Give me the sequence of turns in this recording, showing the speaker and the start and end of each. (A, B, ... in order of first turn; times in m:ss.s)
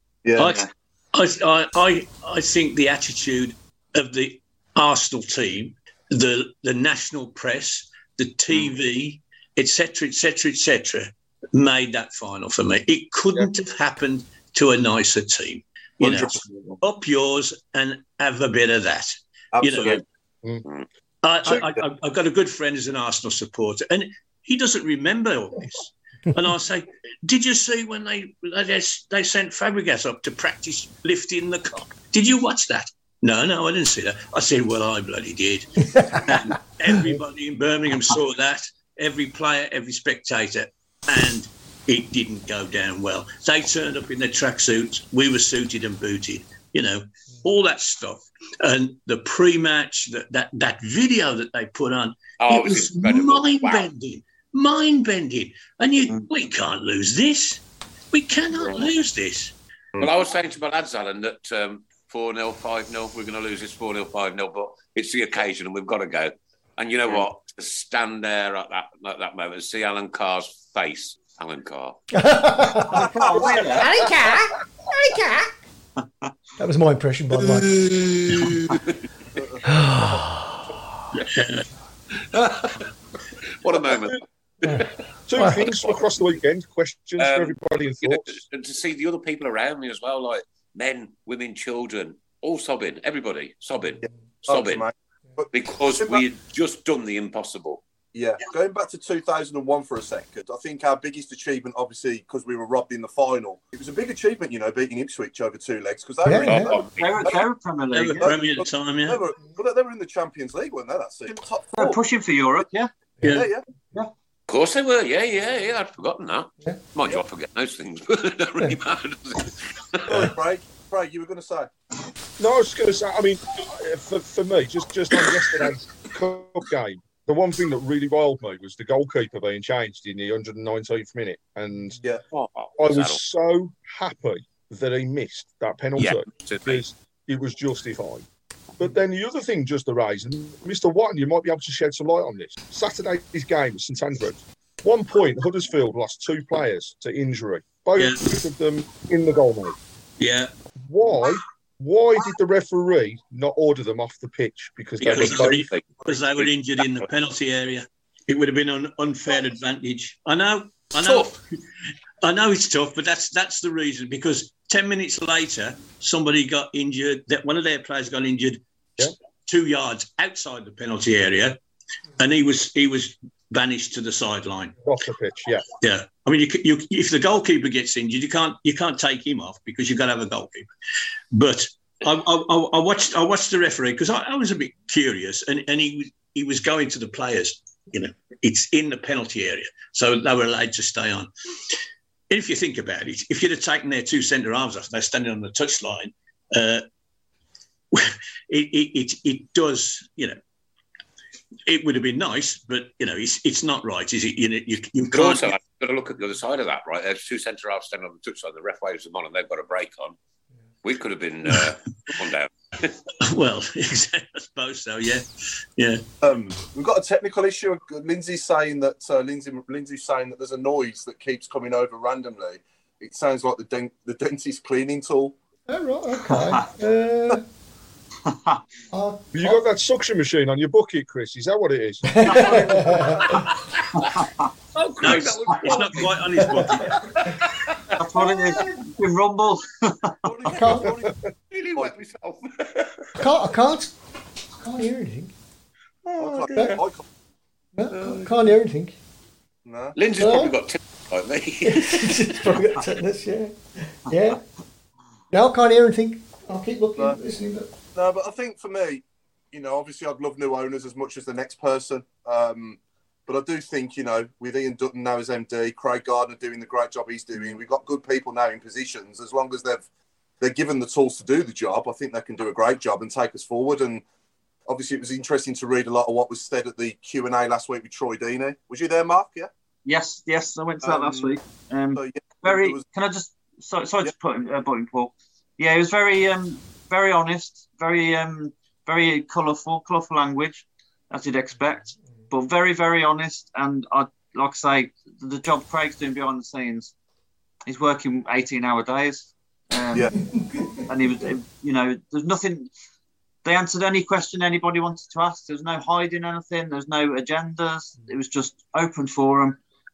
0:00.2-0:00.5 A
0:00.4-0:20.0 B
0:00.4-0:00.7 C
0:16.0-0:16.7 A
0:19.5-0:20.0 A
0:21.2-0:59.5 B
0:21.4-0:21.8 A
0:35.9-0:36.3 D
0:52.4-0:53.9 E
1:00.0-1:12.0 E
1:12.1-1:15.5 D
1:12.9-1:13.8 A
1:12.9-1:14.0 C
1:16.0-1:16.3 C
1:16.6-1:17.8 D
1:18.1-1:18.4 B
1:18.3-1:19.0 E
1:19.6-1:20.7 D
1:21.1-1:21.6 B
1:22.3-1:22.8 E
1:23.6-1:24.9 E
1:24.6-1:25.6 D
1:25.3-1:28.4 F
1:25.5-1:25.9 E
1:27.2-1:34.9 E
1:34.5-1:36.2 A
1:35.5-1:37.8 E
1:38.1-1:47.4 A
1:46.2-1:46.7 D
1:46.4-1:47.2 E
1:46.9-1:48.3 C
1:47.9-1:49.2 B
1:48.2-1:52.0 A
1:51.8-1:52.9 C
1:53.2-1:53.5 B
1:53.3-1:53.6 A
1:54.5-2:00.3 E
2:00.1-2:01.7 A
2:02.4-2:12.0 F
2:12.3-2:13.2 E
2:12.8-2:18.2 F
2:16.0-2:16.8 E
2:18.8-2:29.8 F
2:28.0-2:28.2 B
2:30.2-2:30.5 B
2:30.8-2:35.6 F
2:35.0-2:36.8 E
2:35.0-2:41.4 B
2:41.0-2:41.3 E
2:42.2-2:51.6 B
2:52.2-2:54.8 B
2:54.8-2:55.7 F
2:55.8-3:00.7 B
3:01.3-3:11.3 B
3:12.3-3:16.8 B
3:17.9-3:20.4 B
3:21.6-3:25.5 B
3:25.1-3:30.2 E
3:30.8-3:32.9 E
3:33.2-3:35.2 B
3:35.8-3:36.0 B
3:36.2-3:45.3 A
3:45.7-3:47.4 D
3:46.2-3:46.7 C
3:48.2-3:48.6 C
3:48.9-3:49.6 D
3:49.3-3:52.4 F
3:52.0-3:53.4 D
3:52.3-3:52.8 C
3:53.9-3:54.5 C
3:54.7-3:57.4 E
3:55.0-3:57.0 B
3:58.0-4:00.2 C
3:58.2-3:58.8 D
4:00.2-4:01.1 A
4:00.5-4:01.0 D
4:01.5-4:03.2 E
4:03.2-4:03.9 D
4:04.6-4:05.3 D
4:06.1-4:07.0 A
4:06.2-4:06.8 D
4:07.7-4:08.9 D
4:07.9-4:08.3 E
4:09.6-4:10.0 A
4:10.0-4:12.5 E
4:10.2-4:10.5 D
4:11.6-4:14.4 D
4:15.3-4:17.7 D
4:17.9-4:29.8 A
4:30.4-4:34.0 A
4:34.7-4:39.5 A
4:39.8-4:56.9 C
4:40.8-4:41.3 A
4:41.9-4:42.8 A
4:57.7-5:00.1 C
5:00.1-5:00.8 D
5:00.9-5:02.7 C
5:03.4-5:09.6 C